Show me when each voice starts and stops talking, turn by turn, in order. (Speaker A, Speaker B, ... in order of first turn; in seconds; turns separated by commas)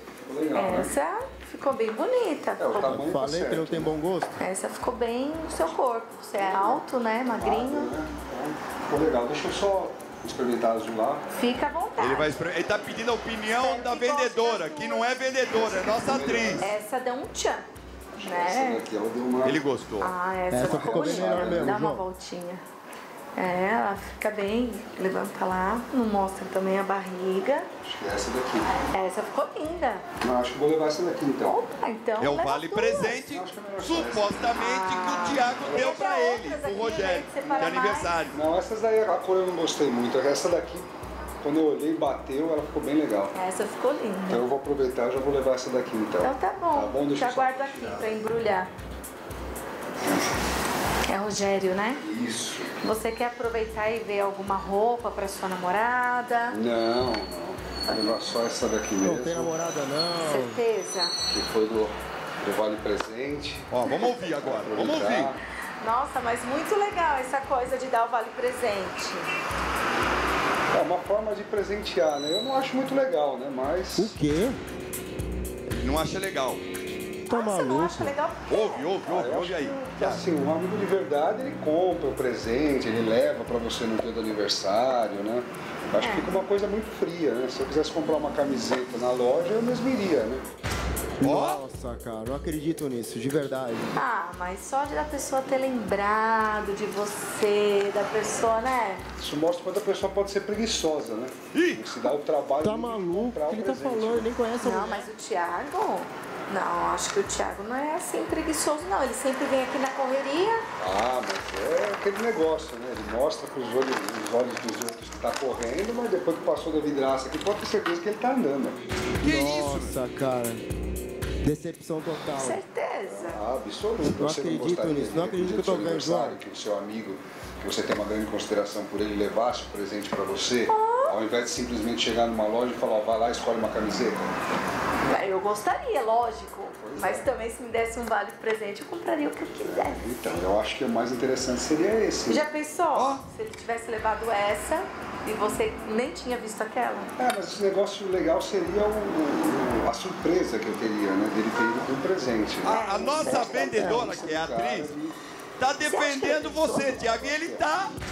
Speaker A: 0.2-0.9, Speaker B: 0.5-3.0, Speaker A: 2.6-3.9, Speaker C: 2.8-4.4, Speaker B: 4.4-7.9, Speaker A: 6.4-11.2, Speaker B: 11.3-12.3, Speaker D: 12.0-16.7, Speaker B: 13.5-15.1, Speaker A: 15.8-16.7, Speaker B: 16.6-17.7, Speaker A: 18.2-19.6, Speaker B: 18.2-18.8, Speaker D: 19.4-20.1, Speaker B: 20.0-22.6, Speaker C: 20.5-22.1, Speaker A: 20.6-21.8, Speaker B: 23.4-27.7, Speaker A: 27.8-28.7, Speaker B: 28.9-30.0, Speaker A: 30.2-31.6, Speaker B: 31.4-33.2, Speaker D: 32.2-38.4, Speaker A: 33.0-34.7, Speaker B: 34.6-38.2, Speaker A: 35.3-36.1, Speaker A: 36.9-40.9, Speaker A: 41.4-43.3, Speaker B: 43.3-44.5, Speaker A: 44.3-48.2, Speaker B: 46.2-48.7, Speaker B: 51.0-52.0, Speaker A: 52.0-52.9, Speaker B: 52.8-56.6, Speaker A: 56.5-59.5, Speaker C: 59.0-60.6, Speaker B: 60.2-61.1, Speaker A: 61.3-65.4, Speaker D: 63.7-65.3, Speaker B: 65.8-69.3, Speaker A: 70.7-74.1, Speaker C: 74.0-74.6, Speaker D: 75.7-76.6, Speaker B: 77.2-78.9, Speaker C: 77.3-78.1, Speaker D: 78.5-80.2, Speaker A: 79.0-90.4, Speaker B: 86.0-86.4, Speaker C: 91.2-94.0, Speaker D: 91.2-91.6, Speaker B: 93.9-99.0, Speaker A: 99.2-104.3, Speaker D: 101.5-101.8, Speaker C: 102.6-105.1, Speaker B: 104.6-110.6, Speaker A: 110.8-118.8, Speaker D: 119.2-120.0, Speaker C: 119.2-120.6, Speaker C: 121.4-122.6, Speaker B: 122.4-123.4, Speaker A: 123.0-134.3, Speaker C: 124.1-126.4, Speaker B: 130.7-131.2, Speaker B: 135.0-140.1, Speaker A: 136.8-137.3, Speaker A: 139.6-142.4, Speaker B: 142.3-147.1, Speaker D: 142.9-143.2, Speaker A: 147.2-155.2, Speaker B: 152.6-153.9, Speaker D: 152.7-154.9, Speaker C: 153.1-154.2, Speaker D: 155.6-157.9, Speaker B: 155.8-157.0, Speaker A: 156.7-157.6